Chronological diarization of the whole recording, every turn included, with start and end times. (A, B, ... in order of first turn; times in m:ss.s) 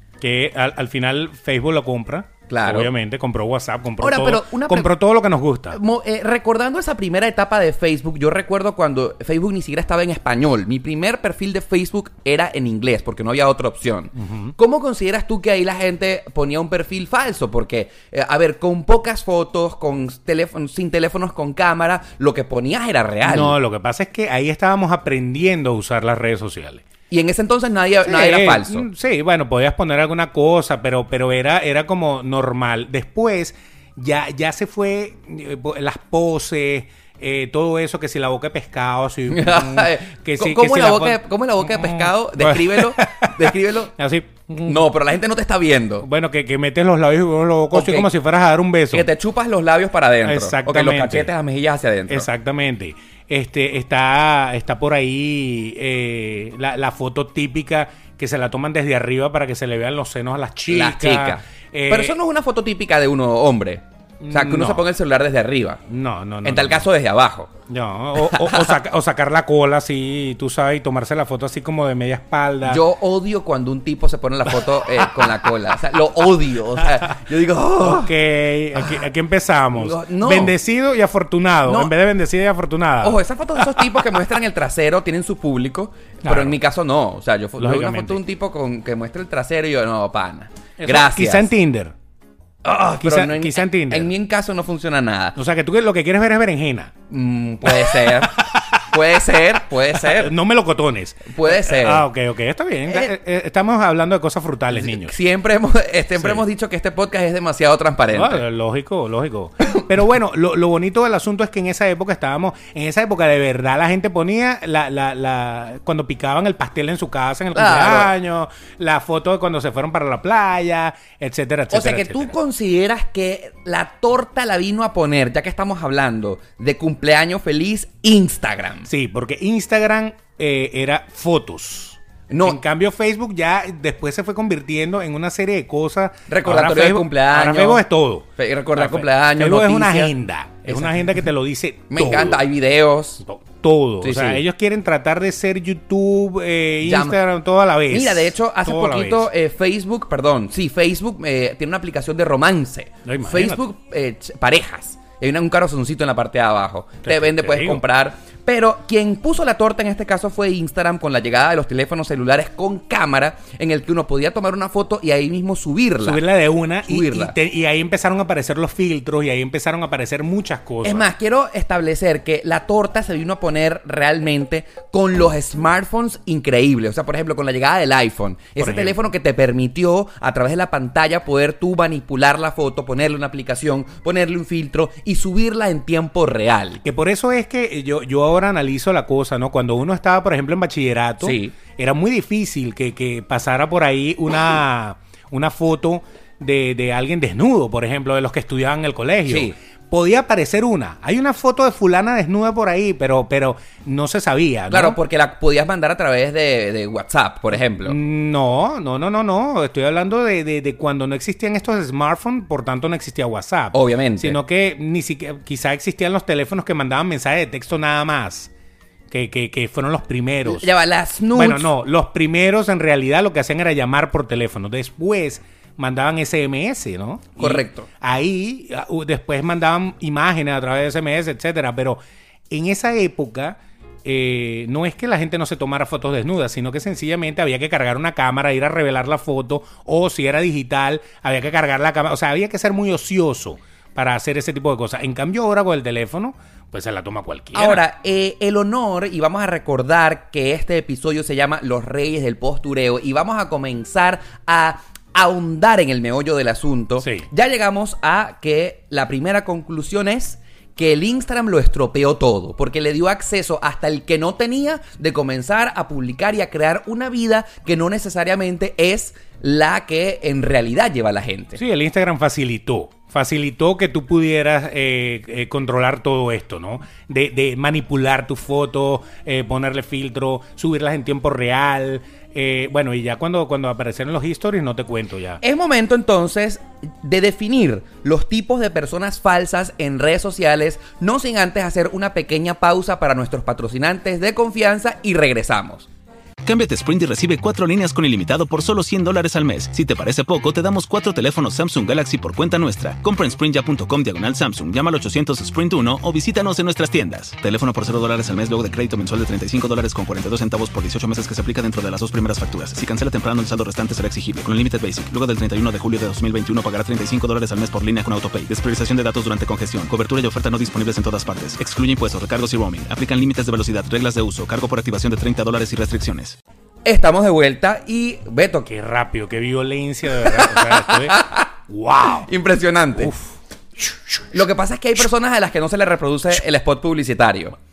0:00.2-0:05.8 A
0:02.5-0:02.9 B
0:04.0-0:04.9 B
0:05.7-0:23.6 B
0:14.2-0:14.5 A
0:23.2-0:26.8 A
0:27.1-0:28.9 B
0:28.0-0:44.8 A
0:39.3-0:43.9 B
0:44.6-0:46.1 B
0:46.0-0:49.1 A
0:47.7-0:48.1 B
0:48.9-0:52.3 B
0:50.2-0:51.3 A
0:52.1-1:02.2 A
1:00.7-1:05.8 B
1:04.2-1:04.9 A
1:05.9-1:06.9 A
1:06.4-1:07.5 B
1:07.7-1:12.8 A
1:08.2-1:08.7 B
1:12.6-1:18.1 B
1:15.0-1:15.3 A
1:17.8-1:24.0 A
1:19.7-1:20.5 B
1:21.7-1:21.9 B
1:23.0-1:31.5 B
1:26.2-1:26.6 A
1:27.6-1:28.2 A
1:30.8-1:32.0 A
1:32.6-1:35.4 B
1:33.0-1:34.1 A
1:35.4-1:36.9 A
1:37.1-1:40.3 B
1:37.6-1:45.2 A
1:41.3-1:42.1 B
1:42.9-1:43.1 B
1:44.7-1:48.4 B
1:46.2-1:46.4 A
1:48.1-2:02.4 A
1:57.5-1:58.1 B
2:01.7-2:08.9 B
2:08.9-2:22.4 A
2:12.3-2:12.6 B
2:16.3-2:17.8 B
2:18.4-2:20.1 B
2:20.7-2:21.2 B
2:21.9-2:23.2 B
2:23.2-2:29.3 A
2:24.0-2:24.4 B
2:26.8-2:27.2 B
2:27.9-2:46.2 B
2:33.0-2:33.6 A
2:37.0-2:37.8 A
2:46.0-2:51.1 A
2:46.9-2:47.4 B
2:50.8-3:06.8 B
2:58.6-2:59.0 A
3:06.8-3:25.0 A
3:11.2-3:11.6 B
3:19.3-3:19.6 B
3:24.7-3:28.0 B
3:27.8-3:38.5 A
3:33.7-3:34.4 B
3:39.1-3:40.7 A
3:40.4-3:41.7 B
3:41.4-3:52.0 A
3:47.4-3:47.9 B
3:52.5-4:07.8 A
4:07.6-4:31.6 B
4:17.0-4:17.3 A
4:31.6-4:45.4 A
4:45.4-4:55.9 B
4:56.4-5:26.4 C
5:26.8-5:28.7 B
5:28.7-5:32.3 A
5:30.2-5:31.5 B
5:32.2-5:33.1 B
5:33.0-5:34.2 A
5:34.3-5:37.6 B